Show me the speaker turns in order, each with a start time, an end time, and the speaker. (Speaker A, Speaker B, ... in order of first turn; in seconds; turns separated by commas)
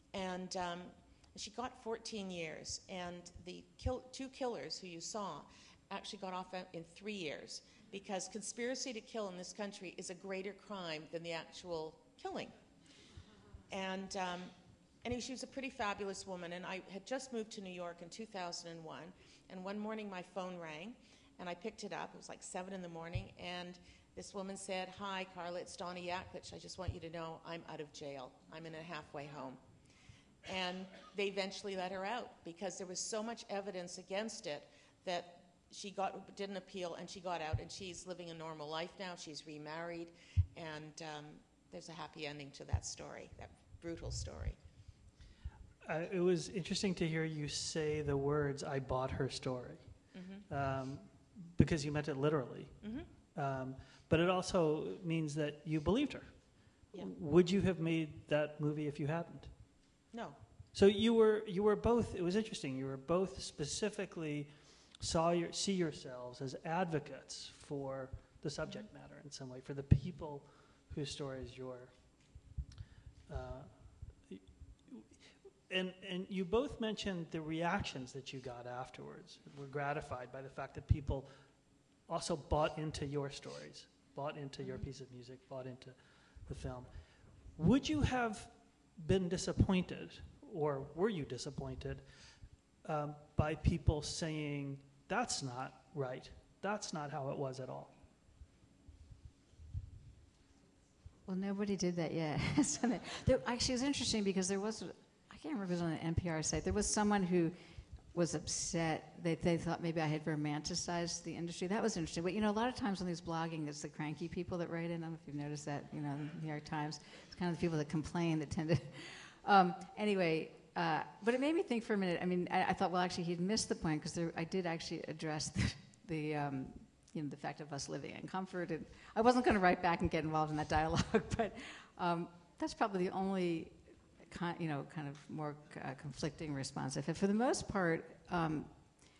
Speaker A: 0.1-12.5, Speaker A: 13.7-14.5, Speaker A: 15.0-29.6, Speaker A: 30.4-44.6, Speaker B: 45.9-49.9, Speaker A: 50.1-50.5, Speaker B: 50.5-52.8, Speaker A: 52.8-53.1, Speaker B: 53.3-56.4, Speaker B: 56.9-59.5, Speaker A: 60.1-60.4, Speaker B: 60.7-71.9, Speaker B: 73.3-81.3, Speaker B: 82.1-86.0, Speaker A: 84.6-84.8, Speaker B: 86.5-86.9, Speaker B: 87.6-92.0, Speaker B: 92.8-97.9, Speaker C: 101.2-107.6, Speaker C: 108.1-138.8